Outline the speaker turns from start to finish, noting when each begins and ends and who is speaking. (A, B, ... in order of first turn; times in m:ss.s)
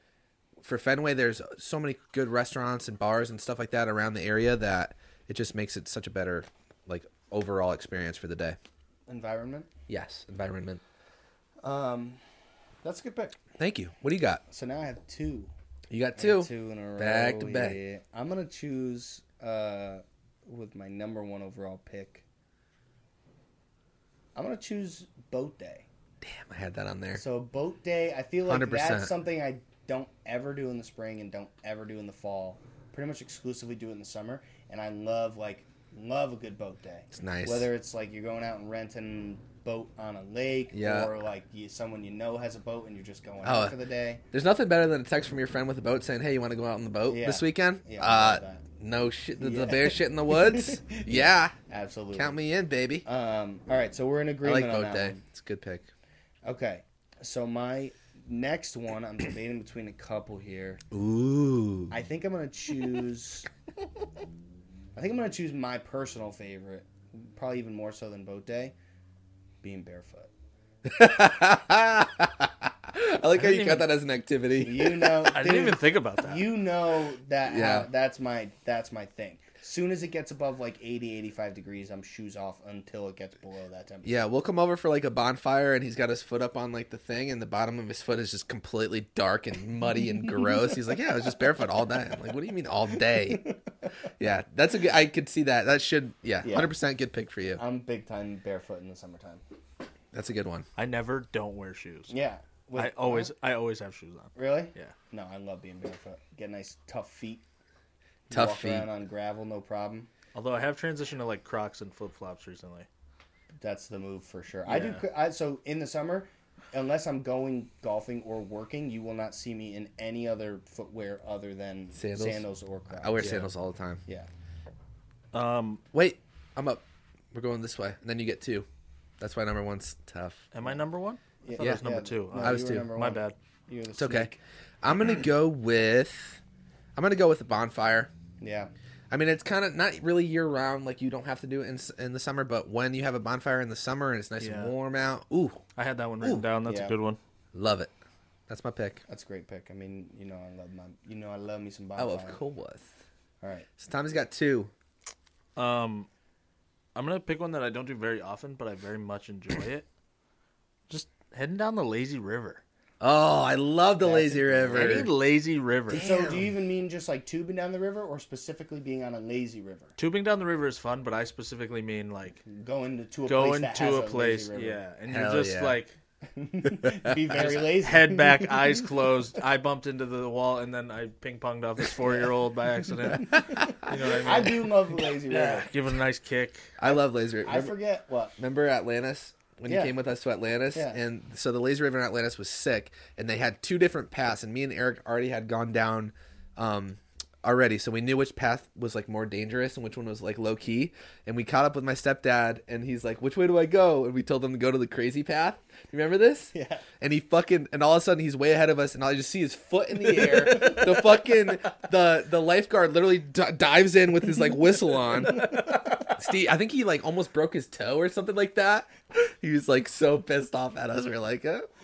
0:00.6-0:08.6 A
0:09.1-0:09.7 B
0:09.9-0:10.8 A
0:11.6-0:12.2 B
0:12.8-0:13.4 B
0:13.6-0:14.4 A
0:14.5-0:15.5 B
0:15.9-0:17.8 A
0:16.2-0:22.2 B
0:24.4-0:25.9 B
0:26.2-0:27.2 A
0:27.2-0:44.2 B
0:28.5-0:29.1 A
0:37.1-0:37.7 A
0:40.7-0:41.1 A
0:43.4-0:43.8 A
0:44.3-0:51.5 A
0:47.1-0:48.6 B
0:49.4-0:52.4 B
0:52.1-0:53.1 A
0:53.0-0:55.2 B
0:54.4-0:55.9 A
0:56.4-1:00.8 B
1:00.9-1:01.9 A
1:01.9-1:03.5 B
1:05.0-1:08.7 B
1:09.6-1:10.3 B
1:10.8-1:15.3 A
1:13.4-1:13.9 C
1:14.6-1:24.2 B
1:15.3-1:16.5 C
1:17.5-1:17.9 A
1:24.0-1:33.5 A
1:33.3-1:33.6 B
1:34.2-1:37.6 A
1:36.4-1:36.7 B
1:37.6-1:39.4 B
1:40.1-1:40.7 A
1:40.8-1:42.1 C
1:42.1-1:43.3 B
1:42.8-1:44.9 C
1:44.4-1:47.4 B
1:48.3-1:50.1 B
1:48.3-1:48.9 A
1:50.3-1:52.9 C
1:53.6-2:03.4 B
1:54.7-1:55.0 C
2:02.0-2:04.0 A
2:03.2-2:03.5 C
2:05.3-2:05.8 C
2:05.9-2:08.7 A
2:09.2-2:10.5 A
2:10.5-2:13.4 C
2:11.4-2:14.4 B
2:12.4-2:12.9 A
2:14.0-2:14.3 A
2:14.8-2:16.4 A
2:17.0-2:18.1 A
2:18.4-2:18.7 B
2:19.1-2:25.6 A
2:24.4-2:24.7 C
2:25.8-2:27.2 C
2:26.2-2:26.5 A
2:26.6-2:26.9 B
2:27.5-2:27.9 A
2:28.5-2:29.0 A
2:29.1-2:32.4 B
2:32.0-2:32.9 A
2:33.4-2:33.7 B
2:33.8-2:34.7 A
2:35.6-2:36.1 C
2:37.0-2:39.9 C
2:40.9-2:42.6 C
2:43.0-2:45.1 A
2:44.0-2:45.0 B
2:44.7-2:46.0 C
2:45.9-2:46.5 A
2:45.9-2:49.9 B
2:50.0-2:52.4 C
2:52.5-2:54.8 B
2:53.3-2:56.0 C
2:55.1-2:55.8 A
2:56.3-2:58.8 B
2:56.6-2:57.2 A
2:57.3-3:06.7 C
3:02.0-3:02.3 B
3:03.3-3:03.9 A
3:03.5-3:05.7 B
3:06.8-3:07.7 A
3:06.8-3:08.4 B
3:08.4-3:41.7 A
3:09.7-3:09.9 B
3:10.7-3:11.0 B
3:26.5-3:26.8 B